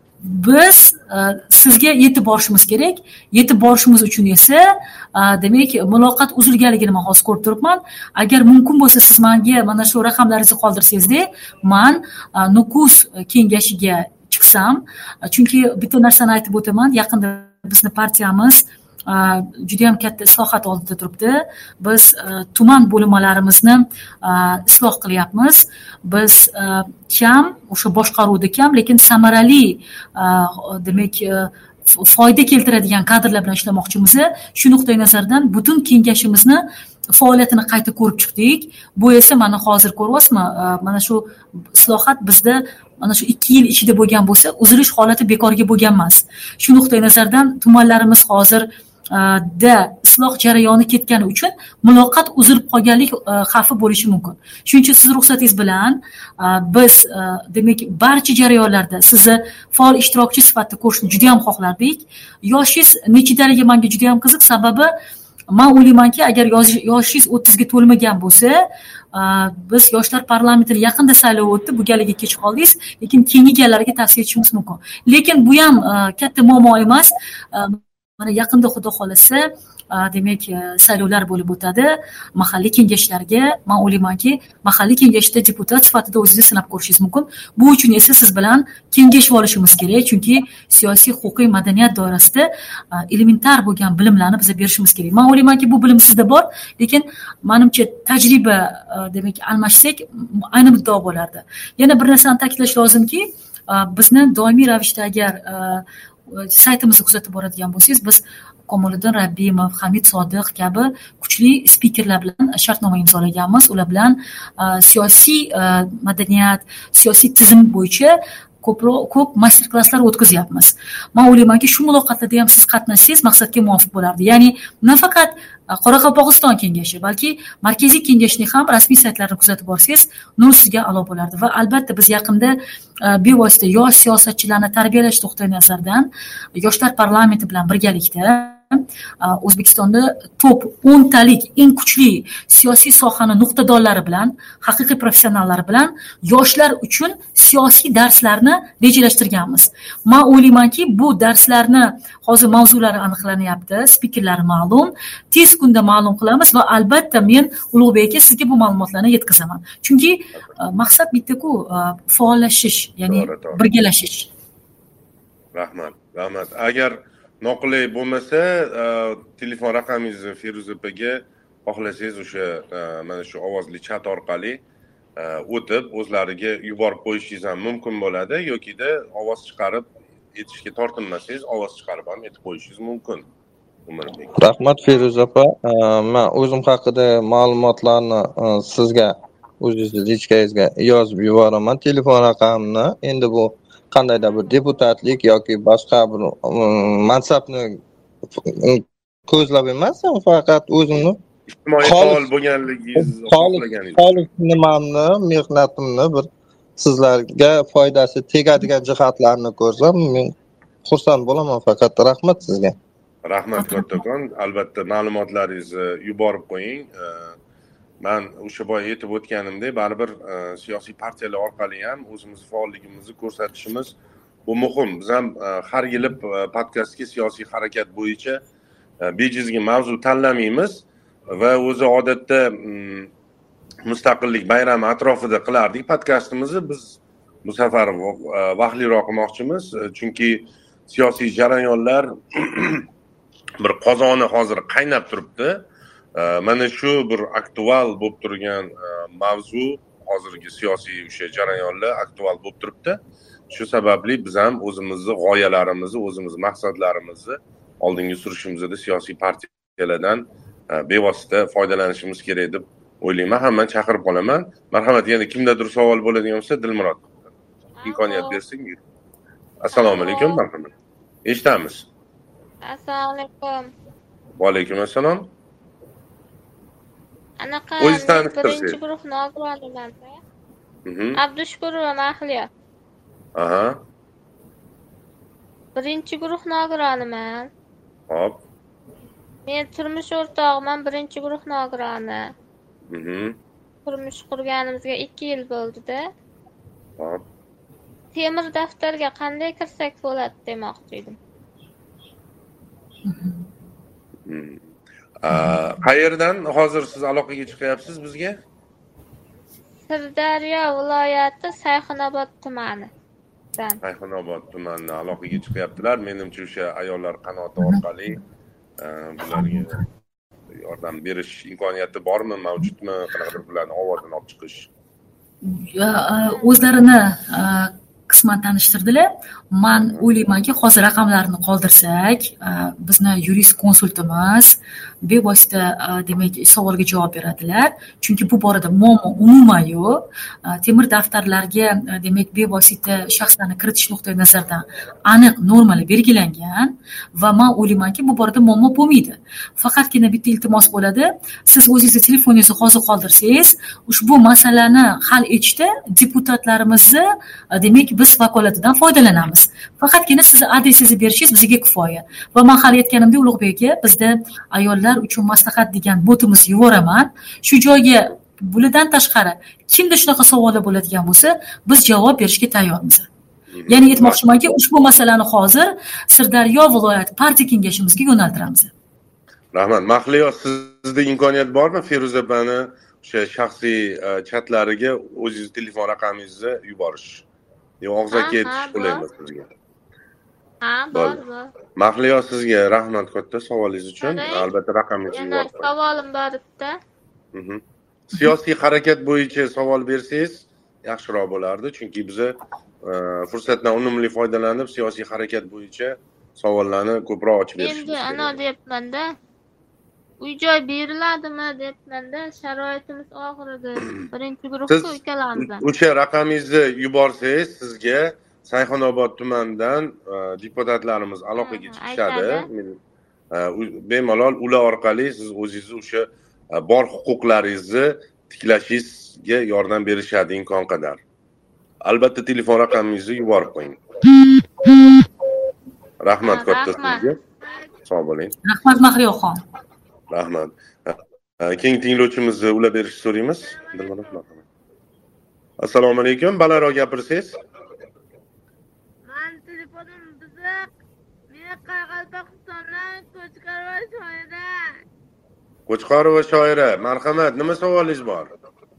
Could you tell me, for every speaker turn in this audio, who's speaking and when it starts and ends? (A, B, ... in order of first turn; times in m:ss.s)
0:00.2-0:04.6 A
0:05.1-1:04.9 A
1:05.5-1:08.6 A
1:09.1-2:44.3 A
2:43.1-2:43.6 B
2:45.5-2:54.6 B
2:55.2-3:03.2 B
3:03.9-3:04.4 B
3:04.4-3:17.8 C
3:18.3-3:21.2 C
3:21.5-3:24.2 B
3:21.8-3:22.3 C
3:23.0-3:32.7 C
3:33.2-3:37.3 B
3:33.6-3:34.0 A
3:38.0-3:43.9 B
3:44.4-3:48.4 B
3:49.0-3:53.1 B
3:53.8-4:02.8 B
4:03.6-4:05.6 B
4:06.2-4:27.1 B
4:27.8-4:28.4 D
4:27.8-4:28.8 B
4:29.6-4:30.7 B
4:29.7-4:30.4 D
4:31.2-4:31.9 B
4:32.6-4:33.7 D
4:34.4-4:35.3 B
4:37.4-4:40.2 D
4:37.8-4:38.8 B
4:40.8-4:41.2 B
4:41.1-4:42.5 D
4:43.4-4:43.8 B
4:45.8-4:47.5 D
4:48.1-4:48.4 B
4:49.4-4:52.3 D
4:52.9-4:53.3 B
4:53.8-4:56.0 D
4:58.1-5:01.2 D
5:03.1-5:03.4 A
5:04.2-5:04.6 B
5:05.2-5:08.4 B
5:05.3-5:05.6 A
5:09.9-5:12.9 D
5:13.8-5:18.2 B
5:18.8-5:19.8 B
5:19.3-5:19.7 A
5:20.5-5:24.7 B
5:25.4-6:13.1 A
6:13.5-6:14.2 B
6:13.7-6:18.7 A
6:19.5-6:27.2 B
6:27.8-6:29.5 B
6:28.1-6:29.0 D
6:30.6-6:31.5 D
6:30.9-6:31.2 B
6:31.8-6:35.7 B
6:34.0-6:34.5 D
6:35.1-6:36.7 D
6:37.3-6:48.4 B
6:47.6-6:49.1 D
6:50.2-6:55.6 D
6:54.7-7:02.8 B
7:01.4-7:02.4 D
7:03.3-7:11.0 B
7:11.8-7:13.8 B
7:16.0-7:17.2 B
7:16.2-7:17.0 D
7:17.4-7:17.7 E
7:17.8-7:18.3 B
7:18.4-7:19.4 A
7:20.1-7:24.4 B
7:23.4-7:24.2 E
7:25.6-7:27.4 B
7:29.1-7:30.7 E
7:31.3-7:34.8 E
7:35.7-7:38.3 B